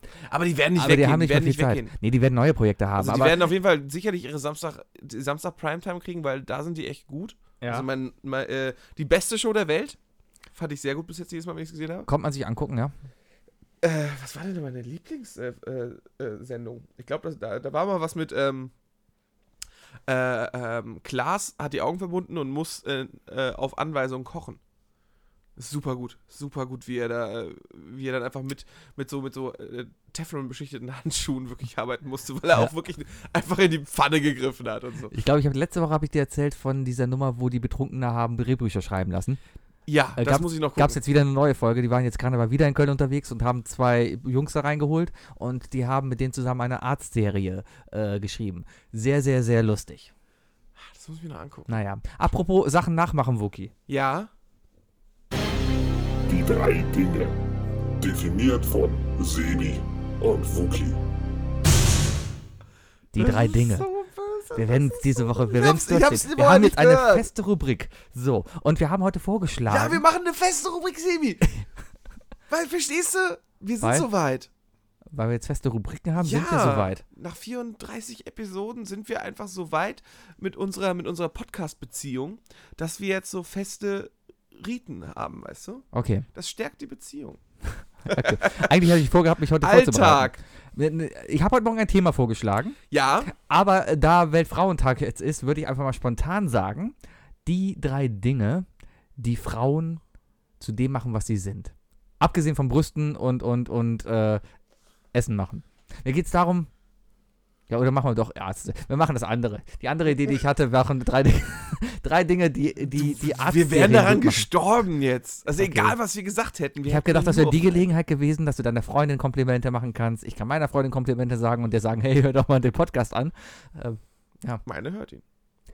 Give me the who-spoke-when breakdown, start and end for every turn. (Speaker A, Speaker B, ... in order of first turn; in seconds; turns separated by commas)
Speaker A: 0.2-1.9, Speaker B: 0.7-3.4, Speaker A: 3.0-10.0, Speaker B: 7.6-7.9, Speaker A: 10.5-12.1, Speaker B: 12.1-12.9, Speaker A: 13.8-18.7, Speaker A: 20.1-24.6, Speaker A: 25.6-35.1, Speaker B: 35.1-39.4, Speaker A: 39.9-41.0, Speaker B: 40.2-50.1, Speaker A: 50.8-51.8, Speaker B: 51.7-53.7, Speaker A: 53.9-54.3, Speaker C: 56.3-57.4, Speaker C: 58.0-61.0, Speaker B: 63.1-63.9, Speaker A: 63.2-67.3, Speaker B: 64.5-70.0, Speaker A: 69.7-71.5, Speaker A: 72.5-74.5, Speaker B: 73.8-74.1, Speaker B: 75.1-77.0, Speaker A: 76.2-87.4, Speaker B: 85.9-86.3, Speaker A: 88.0-88.9, Speaker B: 88.0-100.0, Speaker A: 89.6-90.4, Speaker A: 92.9-93.3, Speaker B: 100.6-104.4, Speaker B: 105.1-106.7, Speaker B: 107.7-114.5, Speaker A: 112.9-117.9, Speaker B: 115.5-116.0, Speaker B: 116.9-124.6, Speaker A: 124.6-125.2